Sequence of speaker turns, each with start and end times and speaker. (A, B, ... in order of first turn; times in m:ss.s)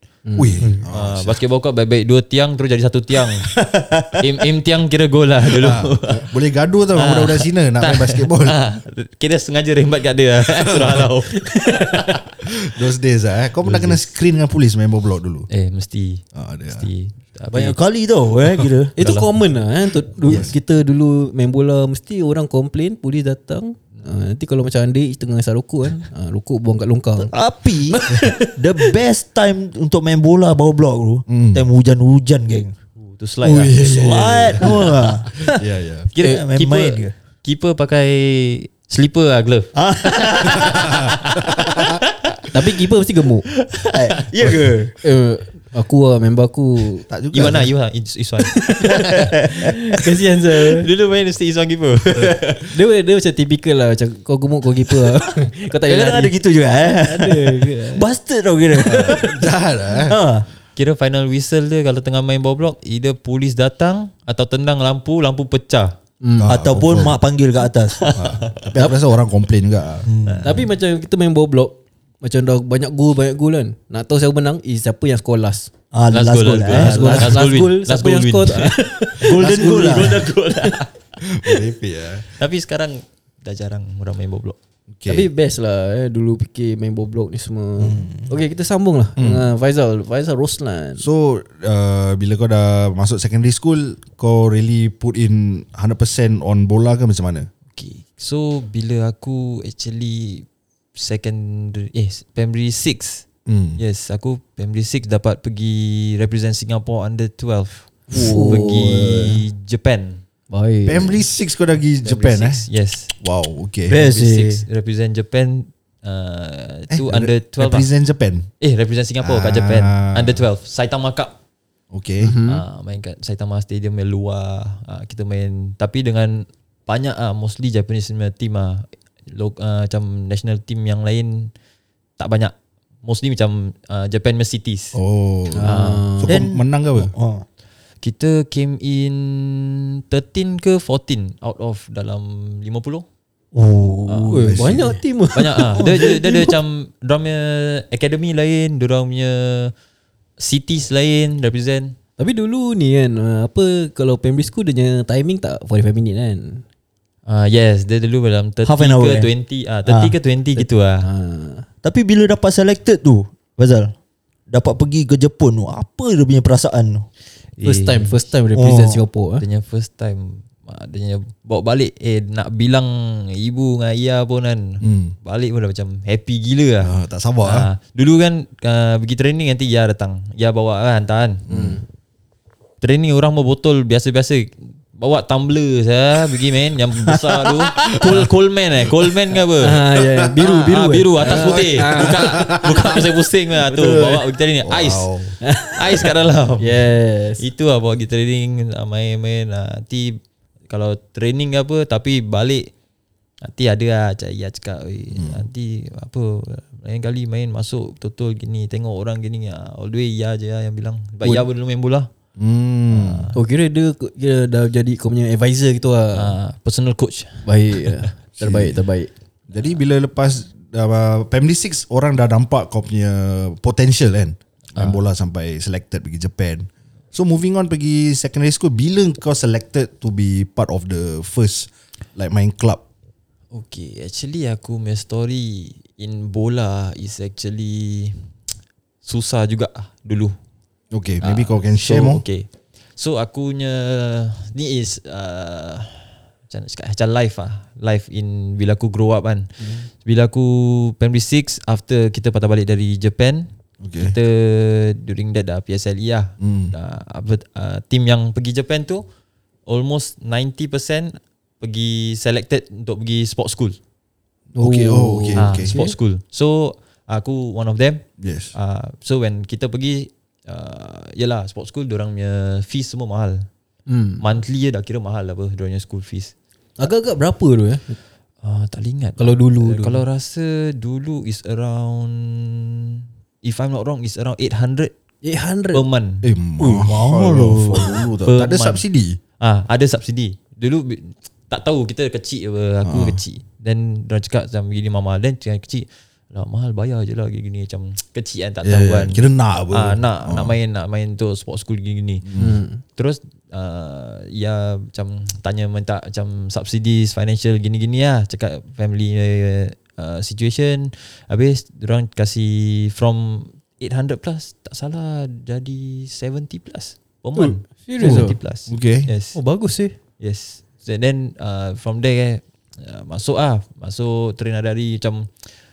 0:00.3-0:00.7 A
0:00.4-0:01.4 B
0:00.7-0:03.5 C
0:03.5-0:04.2 D
0:04.2-0:06.3 C
0:05.5-0:08.6 B
0:06.9-0:12.4 C
0:10.5-0:11.1 B
0:11.4-0:12.1 A
0:12.5-0:15.5 B
0:13.6-0:14.1 C
0:15.5-0:17.8 C
0:16.4-0:16.9 B
0:17.5-0:18.9 D
0:19.0-0:27.4 A
0:19.0-0:19.3 C
0:20.2-0:20.5 B
0:27.2-0:32.8 D
0:27.9-0:28.9 A
0:31.3-0:31.6 B
0:33.0-0:35.5 C
0:33.4-0:36.1 B
0:33.8-0:35.3 D
0:36.1-0:42.4 C
0:36.2-0:37.1 D
0:39.8-0:41.0 D
0:40.5-0:41.8 B
0:42.5-0:43.5 A
0:43.6-0:44.2 C
0:43.9-0:44.9 D
0:45.0-0:47.1 A
0:47.1-0:47.7 B
0:47.3-0:49.1 C
0:48.6-0:48.9 A
0:49.0-0:49.7 D
0:49.6-0:50.9 A
0:50.7-0:52.7 C
0:52.7-0:56.3 A
0:55.9-0:59.4 D
0:57.0-0:58.0 A
0:58.8-1:00.2 B
1:00.0-1:00.5 D
1:00.8-1:05.9 C
1:06.2-1:06.5 A
1:06.4-1:07.2 B
1:06.4-1:08.1 D
1:08.0-1:08.6 C
1:08.1-1:10.1 B
1:10.0-1:10.6 D
1:10.2-1:10.6 C
1:10.4-1:15.7 A
1:15.9-1:17.4 D
1:16.1-1:20.9 C
1:16.7-1:20.1 A
1:19.2-1:20.3 D
1:19.4-1:20.2 B
1:21.2-1:22.3 B
1:22.2-1:24.6 C
1:25.0-1:25.3 B
1:25.1-1:31.0 A
1:29.2-1:29.5 B
1:31.0-1:37.5 B
1:37.8-1:43.2 C
1:43.5-1:43.8 B
1:43.8-1:50.2 C
1:48.1-1:49.4 A
1:48.2-1:48.6 D
1:50.5-1:51.2 A
1:50.9-1:52.6 B
1:52.0-1:53.1 C
1:53.2-1:54.0 B
1:53.9-1:54.6 D
1:53.9-1:57.9 C
1:56.9-1:58.5 B
1:58.6-2:01.4 C
1:59.2-2:00.4 B
2:01.9-2:02.4 B
2:02.2-2:02.6 A
2:02.5-2:11.5 C
2:12.2-2:12.5 C
2:13.0-2:15.0 C
2:14.9-2:17.1 B
2:15.5-2:16.3 A
2:15.6-2:16.1 C
2:16.2-2:17.4 D
2:18.0-2:23.0 C
2:23.5-2:24.9 D
2:24.1-2:24.4 C
2:24.3-2:26.5 A
2:24.4-2:24.9 B
2:25.3-2:29.7 C
2:25.8-2:26.5 D
2:30.4-2:32.0 C
2:32.2-2:36.6 A
2:37.3-2:41.1 C
2:38.6-2:39.3 D
2:39.9-2:40.2 D
2:40.6-2:41.7 A
2:41.8-2:43.9 D
2:44.5-2:47.1 D
2:47.6-2:48.3 C
2:47.6-2:49.4 A
2:48.5-2:49.0 D
2:49.4-2:56.9 C
2:54.8-2:55.1 B
2:56.8-2:57.7 B
2:57.4-3:01.4 C
3:01.5-3:01.8 B
3:01.5-3:01.8 A
3:02.8-3:09.8 C
3:07.7-3:08.3 B
3:09.6-3:13.0 A
3:10.4-3:15.1 C
3:11.2-3:13.0 B
3:13.8-3:15.4 B
3:15.4-3:16.1 A
3:15.7-3:16.8 C
3:16.6-3:17.4 A
3:17.4-3:22.7 C
3:23.4-3:32.1 C
3:25.1-3:25.4 B
3:32.4-3:33.3 B
3:32.9-3:33.4 C
3:33.3-3:36.4 A
3:36.1-3:38.1 C
3:37.4-3:39.1 A
3:38.4-3:38.8 B
3:39.5-3:52.8 B
3:44.8-3:45.0 C
3:53.5-3:58.3 C
3:59.0-4:00.4 C
4:00.9-4:02.2 B
4:01.2-4:13.5 C
4:13.8-4:14.2 B
4:14.0-4:19.0 C
4:16.4-4:16.7 B
4:19.7-4:23.8 C
4:24.6-4:26.0 A
4:24.6-4:25.8 B
4:25.4-4:33.5 C
4:28.2-4:28.5 B
4:33.9-4:34.2 A
4:34.2-4:36.3 C
4:36.8-4:38.0 A
4:38.4-4:44.9 C
4:39.2-4:40.0 A
4:45.2-4:45.8 A
4:45.7-4:46.3 C
4:46.2-4:49.2 B
4:46.6-4:48.1 D
4:48.3-4:48.8 C
4:49.4-5:02.2 C
4:52.8-4:53.2 B
4:58.6-5:00.6 B
5:02.2-5:02.6 B
5:02.4-5:02.8 A
5:03.0-5:19.4 C
5:17.4-5:18.4 A
5:18.0-5:19.1 B
5:19.3-5:20.0 A
5:20.2-5:25.3 C